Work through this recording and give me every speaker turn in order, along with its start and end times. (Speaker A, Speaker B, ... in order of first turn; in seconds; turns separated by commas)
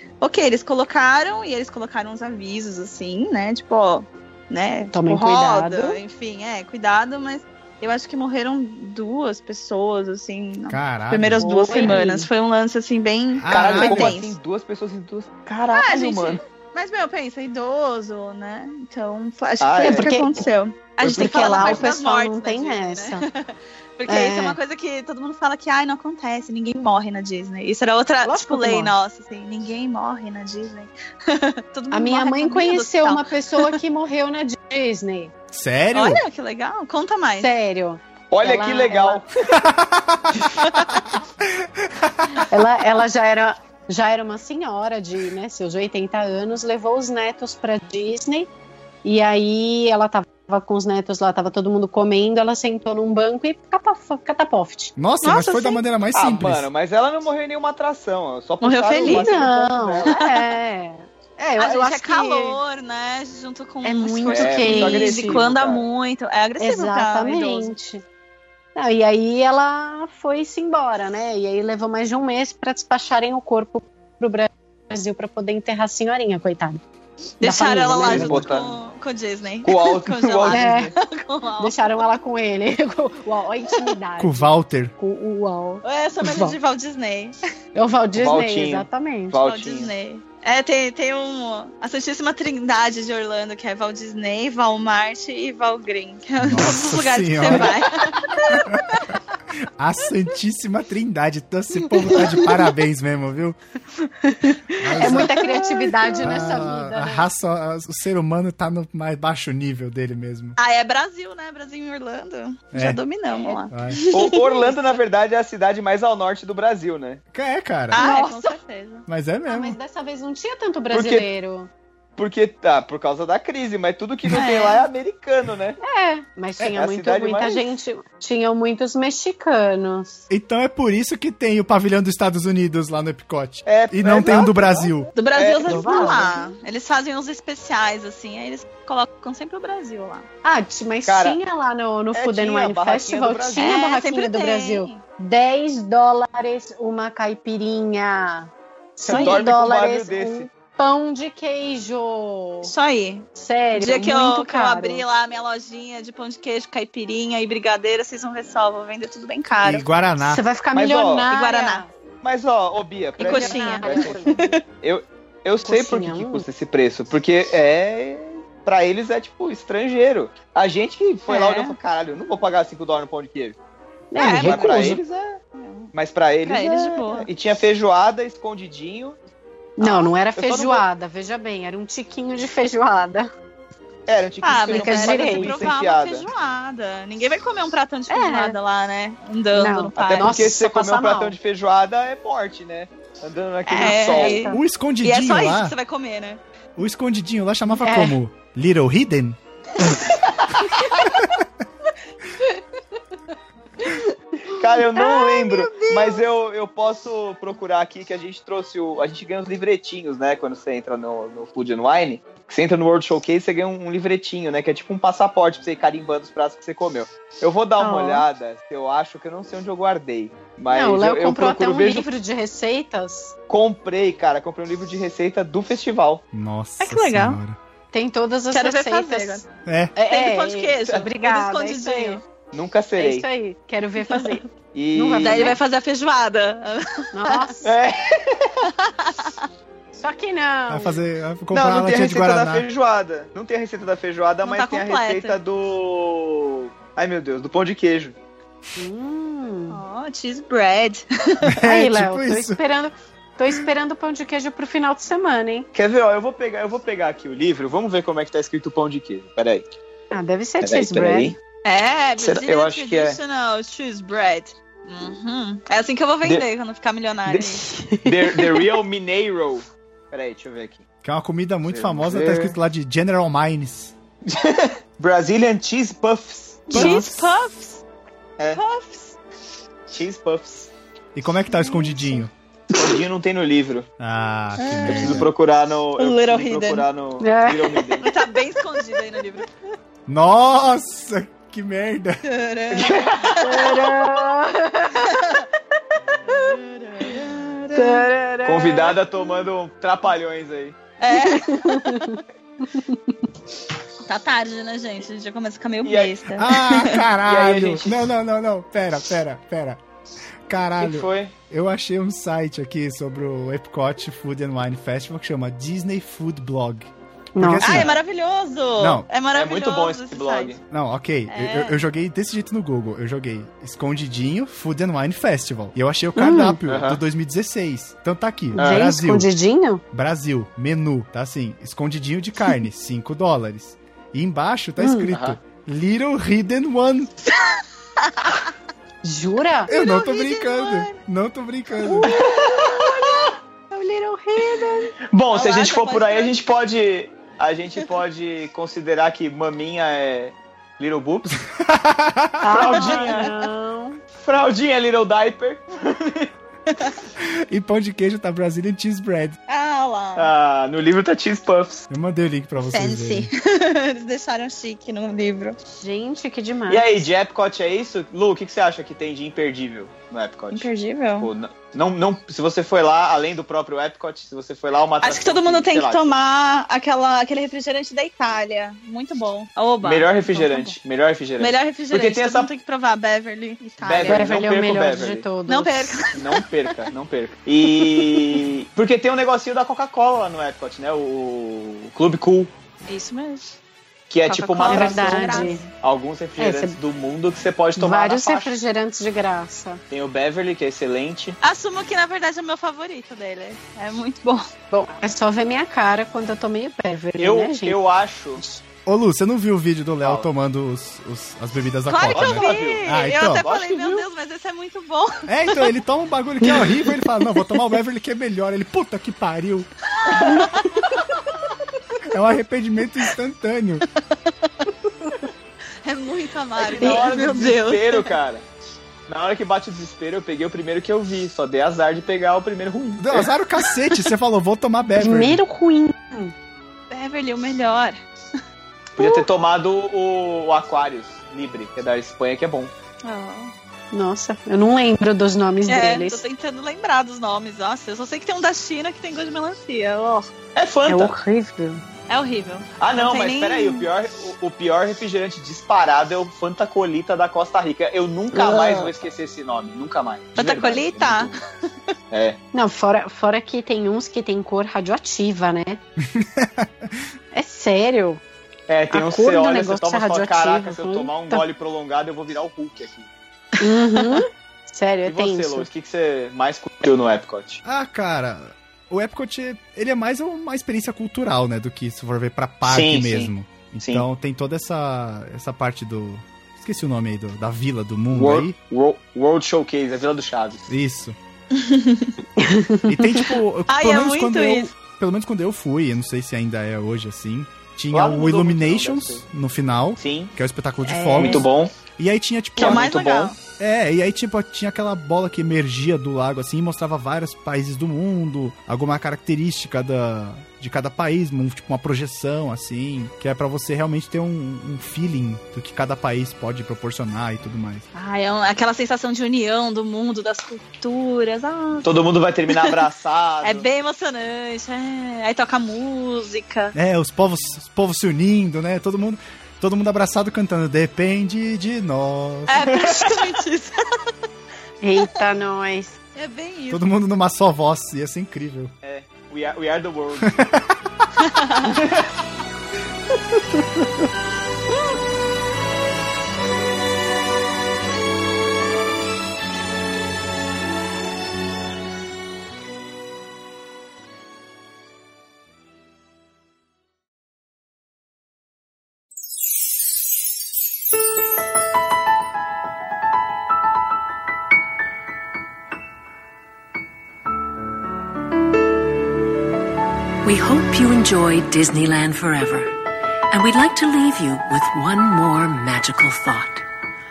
Speaker A: 0.2-14.3, Speaker B: 4.9-6.0, Speaker C: 10.7-11.5, Speaker B: 11.4-12.3, Speaker C: 13.4-14.2, Speaker D: 13.5-16.4, Speaker A: 15.7-33.7, Speaker D: 19.6-20.1, Speaker B: 19.8-20.4, Speaker D: 21.0-21.9, Speaker B: 21.0-23.2, Speaker B: 24.1-24.6, Speaker B: 28.2-28.9, Speaker B: 31.9-35.3, Speaker C: 35.5-36.2, Speaker A: 35.9-37.5, Speaker B: 37.3-39.2, Speaker D: 38.3-39.3, Speaker C: 39.6-40.5, Speaker A: 40.5-41.0, Speaker C: 41.5-42.4, Speaker B: 42.5-48.5, Speaker B: 49.0-54.9, Speaker C: 55.0-56.7, Speaker A: 55.2-55.8, Speaker D: 56.1-60.1, Speaker A: 58.6-59.5, Speaker B: 59.0-62.6, Speaker A: 60.0-60.5, Speaker A: 61.6-67.7, Speaker B: 63.8-65.4, Speaker D: 64.3-65.9, Speaker B: 66.6-68.0, Speaker B: 68.7-76.8, Speaker B: 77.4-78.5, Speaker A: 77.4-81.9, Speaker D: 78.0-78.8, Speaker D: 79.6-80.9, Speaker B: 80.5-80.9, Speaker B: 81.6-86.6, Speaker C: 84.2-84.9, Speaker A: 85.8-87.4, Speaker B: 87.7-89.3, Speaker D: 88.1-89.9, Speaker A: 89.4-99.2, Speaker C: 96.4-97.8, Speaker C: 98.7-99.0, Speaker C: 99.6-103.6, Speaker B: 102.1-102.6, Speaker B: 104.2-107.3, Speaker C: 104.8-105.4, Speaker A: 104.9-106.2, Speaker C: 106.2-110.6, Speaker A: 110.6-114.8, Speaker C: 112.7-113.0, Speaker B: 113.3-113.7, Speaker C: 113.7-114.0, Speaker D: 114.1-117.2, Speaker B: 114.3-114.7, Speaker C: 117.3-118.0, Speaker A: 117.9-119.1, Speaker B: 117.9-118.6, Speaker C: 119.1-119.8, Speaker B: 119.5-121.7, Speaker D: 120.9-121.3, Speaker D: 122.2-125.8, Speaker A: 124.3-124.9, Speaker B: 125.8-130.2, Speaker D: 126.7-127.7, Speaker C: 130.3-135.1, Speaker D: 133.6-136.2, Speaker A: 135.1-140.2, Speaker B: 135.7-136.5, Speaker B: 140.4-152.7, Speaker D: 141.0-141.4, Speaker D: 142.1-143.8, Speaker A: 143.6-145.0, Speaker A: 149.1-149.4, Speaker D: 149.1-150.5, Speaker A: 152.6-159.8, Speaker B: 153.3-155.0, Speaker C: 159.6-160.4, Speaker B: 160.2-161.9, Speaker D: 160.7-161.3, Speaker A: 161.3-161.8, Speaker D: 162.2-164.2, Speaker A: 163.2-164.6, Speaker B: 163.2-164.6, Speaker D: 164.8-173.6, Speaker B: 165.6-166.4, Speaker A: 171.3-171.8, Speaker B: 174.1-175.0, Speaker A: 174.2-175.0, Speaker D: 174.4-175.4, Speaker A: 175.6-175.9, Speaker D: 175.9-179.2, Speaker A: 176.4-177.3, Speaker B: 179.8-183.3, Speaker D: 179.8-180.8, Speaker D: 184.1-186.3, Speaker A: 184.4-190.3, Speaker B: 184.7-185.7, Speaker B: 188.1-188.6, Speaker B: 189.5-191.3, Speaker D: 190.0-194.5, Speaker A: 193.7-196.4, Speaker B: 193.8-194.6, Speaker C: 194.5-195.7, Speaker C: 196.8-199.4, Speaker B: 197.8-198.2, Speaker A: 200.9-201.1, Speaker D: 204.5-222.1, Speaker A: 204.9-206.2, Speaker B: 205.0-205.9, Speaker A: 217.8-218.2, Speaker B: 220.7-223.3, Speaker D: 223.5-226.2, Speaker C: 226.3-227.6, Speaker A: 226.8-227.4, Speaker B: 227.9-229.4, Speaker A: 228.5-229.4, Speaker C: 229.7-229.9, Speaker B: 229.9-232.2, Speaker A: 230.1-232.2, Speaker D: 232.5-233.2, Speaker B: 233.0-235.6, Speaker D: 234.7-235.6, Speaker A: 235.2-237.5, Speaker B: 237.1-237.7, Speaker D: 237.6-238.7, Speaker A: 238.8-239.4, Speaker B: 239.9-241.0, Speaker C: 240.7-242.7, Speaker D: 241.5-248.2, Speaker A: 244.4-245.4, Speaker B: 248.8-249.8, Speaker A: 249.7-251.6, Speaker C: 251.4-252.6, Speaker B: 251.6-255.7, Speaker D: 255.7-259.7, Speaker B: 260.1-261.4, Speaker D: 260.6-261.4, Speaker A: 261.6-267.6, Speaker D: 262.2-263.2, Speaker D: 267.3-270.8, Speaker B: 267.6-268.7, Speaker C: 271.0-273.9, Speaker D: 271.6-272.6, Speaker D: 274.2-277.0, Speaker A: 276.7-277.8, Speaker C: 276.7-277.4, Speaker A: 278.5-279.2, Speaker D: 279.9-280.7, Speaker C: 281.1-282.3, Speaker B: 281.5-282.2, Speaker D: 282.7-283.9, Speaker C: 284.0-285.3, Speaker A: 284.6-285.2, Speaker D: 284.8-288.1, Speaker A: 286.0-286.9, Speaker B: 287.2-288.0, Speaker A: 288.0-289.5, Speaker C: 290.1-292.2, Speaker A: 292.2-293.6, Speaker D: 292.7-293.9, Speaker B: 293.4-295.1, Speaker A: 295.0-295.4, Speaker A: 296.2-298.1, Speaker B: 297.7-299.0, Speaker D: 298.4-300.8, Speaker A: 301.0-302.1, Speaker B: 301.1-302.2, Speaker B: 302.7-303.1, Speaker A: 304.0-307.0, Speaker D: 305.8-306.1, Speaker C: 306.3-309.8, Speaker D: 307.2-308.0, Speaker C: 310.5-318.0, Speaker D: 310.8-311.3, Speaker B: 317.4-317.9, Speaker A: 317.6-320.6, Speaker C: 318.8-319.1, Speaker D: 319.3-320.6, Speaker C: 320.7-329.3, Speaker A: 321.3-321.8, Speaker B: 326.1-326.6, Speaker D: 326.7-327.0, Speaker B: 328.5-329.8, Speaker D: 328.6-328.9, Speaker C: 329.9-337.1, Speaker B: 334.8-335.1, Speaker D: 335.1-335.4, Speaker A: 337.3-338.5, Speaker B: 339.0-339.7, Speaker C: 339.7-342.1, Speaker A: 339.7-341.0, Speaker B: 341.8-344.9, Speaker D: 342.1-343.1, Speaker D: 345.1-351.4, Speaker A: 345.3-346.3, Speaker C: 351.5-352.5, Speaker B: 352.4-354.0, Speaker D: 352.5-353.3, Speaker A: 352.8-353.2, Speaker D: 354.2-356.3, Speaker C: 357.2-359.4, Speaker A: 359.5-360.3, Speaker D: 360.1-361.9, Speaker C: 361.9-363.3, Speaker A: 362.6-365.6, Speaker B: 365.8-367.1, Speaker D: 366.7-376.1, Speaker A: 370.5-371.3, Speaker A: 375.0-380.7, Speaker D: 379.8-382.5, Speaker A: 381.4-384.2, Speaker D: 383.8-385.3, Speaker B: 384.0-386.0, Speaker A: 385.4-386.4, Speaker D: 386.1-392.5, Speaker A: 387.9-388.4, Speaker A: 392.9-393.6, Speaker D: 394.1-398.5, Speaker A: 394.2-395.7, Speaker B: 394.6-395.6, Speaker B: 396.4-396.8, Speaker B: 397.8-399.8, Speaker D: 399.9-401.4, Speaker A: 401.4-404.5, Speaker B: 404.7-407.8, Speaker D: 407.2-408.4, Speaker B: 408.4-408.6, Speaker C: 408.9-413.5, Speaker D: 410.0-410.3, Speaker A: 411.9-415.7, Speaker D: 412.1-413.9, Speaker C: 415.3-419.7, Speaker A: 420.0-421.0, Speaker B: 420.2-420.6, Speaker C: 422.1-423.9, Speaker A: 424.2-424.7, Speaker A: 425.8-428.1, Speaker D: 426.6-428.4, Speaker D: 429.1-433.3, Speaker C: 433.0-435.4, Speaker A: 433.6-434.1, Speaker B: 435.0-436.3, Speaker A: 436.9-438.0, Speaker D: 439.0-442.7, Speaker A: 439.0-439.2, Speaker A: 443.0-443.5, Speaker B: 443.9-446.2, Speaker A: 445.7-450.3, Speaker D: 450.5-451.2, Speaker B: 450.9-451.8, Speaker A: 452.1-453.9, Speaker D: 452.8-461.4, Speaker B: 458.3-458.9, Speaker A: 460.4-461.4, Speaker D: 462.1-462.4, Speaker B: 462.5-465.8, Speaker C: 466.0-467.0, Speaker B: 467.3-468.2, Speaker D: 468.7-473.1, Speaker B: 468.9-471.4, Speaker B: 473.6-475.7, Speaker A: 473.7-474.2, Speaker D: 475.1-477.6, Speaker C: 477.6-488.6, Speaker D: 482.6-484.1, Speaker D: 488.1-490.6, Speaker C: 490.7-491.1, Speaker A: 491.5-492.2, Speaker B: 492.4-493.3, Speaker C: 492.9-502.9, Speaker A: 493.7-494.7, Speaker D: 497.9-499.2, Speaker D: 500.0-500.3, Speaker A: 500.8-501.5, Speaker D: 501.1-501.7, Speaker A: 502.6-503.4, Speaker D: 502.6-503.3, Speaker C: 503.6-517.9, Speaker A: 517.9-522.7, Speaker D: 521.8-523.6, Speaker A: 523.4-526.7, Speaker C: 526.7-532.7, Speaker A: 532.5-533.8, Speaker D: 532.7-533.2, Speaker B: 534.8-536.0, Speaker A: 536.1-536.8, Speaker C: 536.7-538.7, Speaker D: 538.8-540.4, Speaker C: 540.2-540.6, Speaker A: 541.2-541.8, Speaker D: 541.8-542.1, Speaker C: 543.6-543.8, Speaker E: 570.2-572.8, Speaker E: 573.3-576.6